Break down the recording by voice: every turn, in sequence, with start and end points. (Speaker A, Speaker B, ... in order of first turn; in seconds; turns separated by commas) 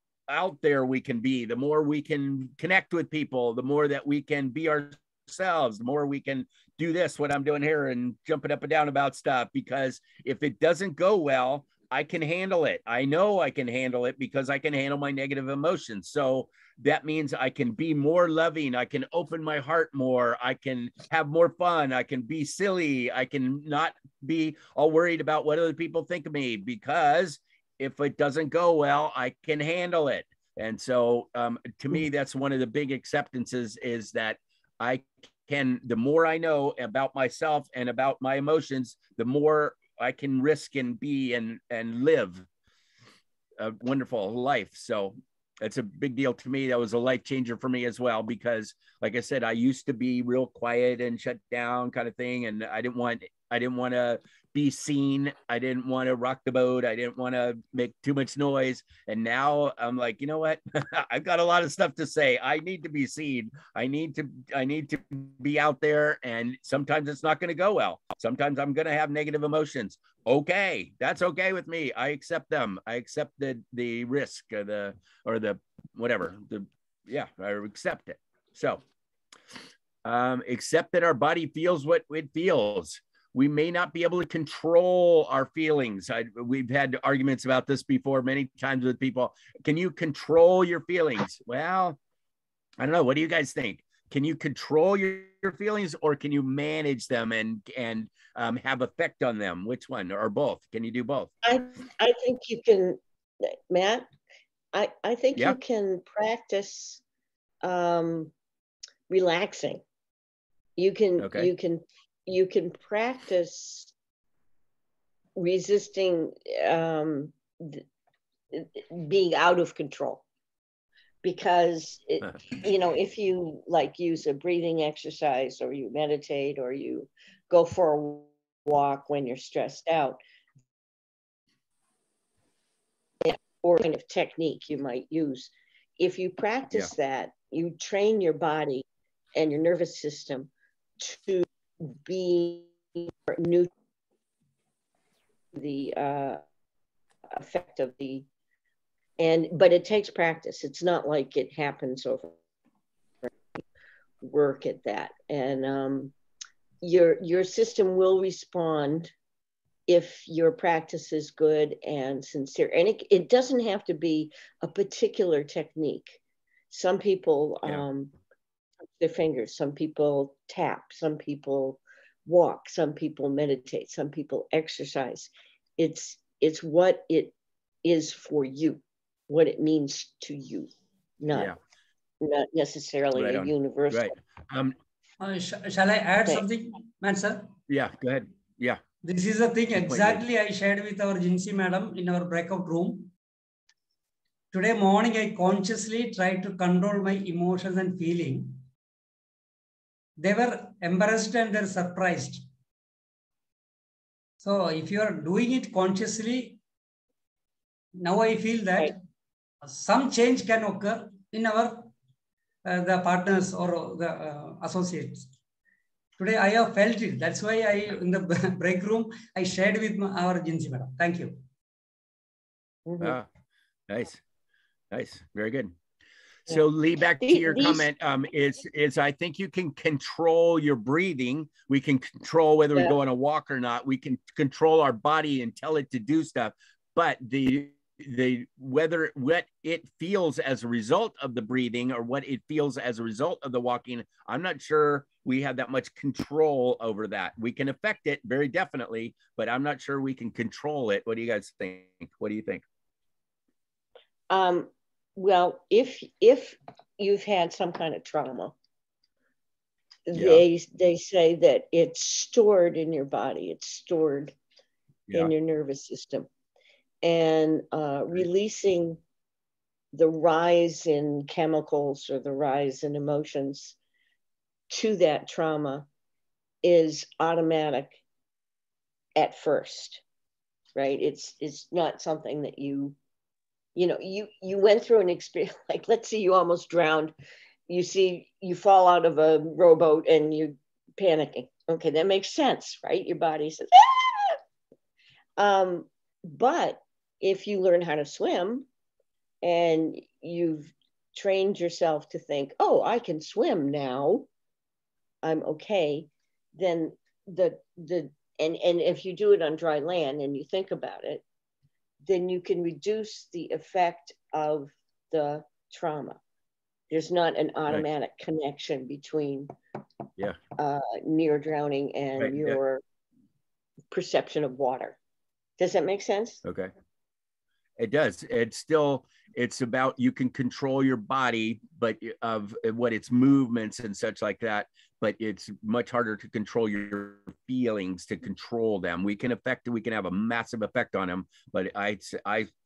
Speaker A: 0.3-42.5, Speaker A: 43.6-78.8, Speaker A: 80.0-92.0, Speaker A: 92.8-101.3, Speaker B: 101.4-104.1, Speaker B: 104.7-107.0, Speaker B: 107.6-108.3, Speaker B: 109.1-109.8, Speaker B: 110.8-113.9, Speaker A: 111.2-111.5, Speaker B: 115.4-117.8, Speaker B: 118.5-120.2, Speaker B: 121.2-130.2, Speaker B: 133.2-138.8, Speaker B: 139.4-143.7, Speaker B: 145.5-146.4, Speaker B: 147.3-148.3, Speaker B: 149.2-152.4, Speaker B: 154.2-156.1, Speaker B: 156.8-159.1, Speaker B: 159.9-166.2, Speaker B: 166.7-168.1, Speaker B: 168.9-180.7, Speaker B: 181.2-181.5, Speaker A: 181.3-181.6, Speaker B: 182.2-184.1, Speaker A: 183.1-184.8, Speaker C: 185.2-187.5, Speaker A: 187.7-188.8, Speaker C: 189.0-193.1, Speaker A: 189.7-190.2, Speaker C: 194.5-198.6, Speaker C: 200.2-202.4, Speaker C: 204.4-206.6, Speaker C: 208.0-209.0, Speaker C: 209.7-211.9, Speaker C: 212.7-215.3, Speaker C: 216.2-221.4, Speaker B: 222.9-223.2, Speaker A: 223.0-223.3, Speaker A: 223.9-224.2, Speaker A: 224.9-225.7, Speaker A: 226.5-252.6, Speaker B: 227.2-227.9, Speaker B: 254.3-258.6, Speaker B: 260.1-264.4, Speaker A: 260.1-260.4, Speaker B: 265.1-266.3, Speaker B: 267.0-269.0, Speaker B: 269.9-273.8, Speaker B: 274.7-275.9, Speaker B: 276.6-278.0, Speaker B: 279.2-280.0, Speaker B: 280.8-283.0, Speaker B: 283.8-287.1, Speaker B: 287.7-294.4, Speaker B: 295.4-298.7, Speaker B: 299.4-304.3, Speaker B: 305.2-311.2, Speaker B: 312.1-316.2, Speaker B: 316.9-319.5, Speaker B: 320.6-322.8, Speaker A: 322.2-322.6, Speaker B: 323.9-325.0, Speaker B: 325.6-326.4, Speaker A: 326.4-326.7, Speaker A: 327.8-342.5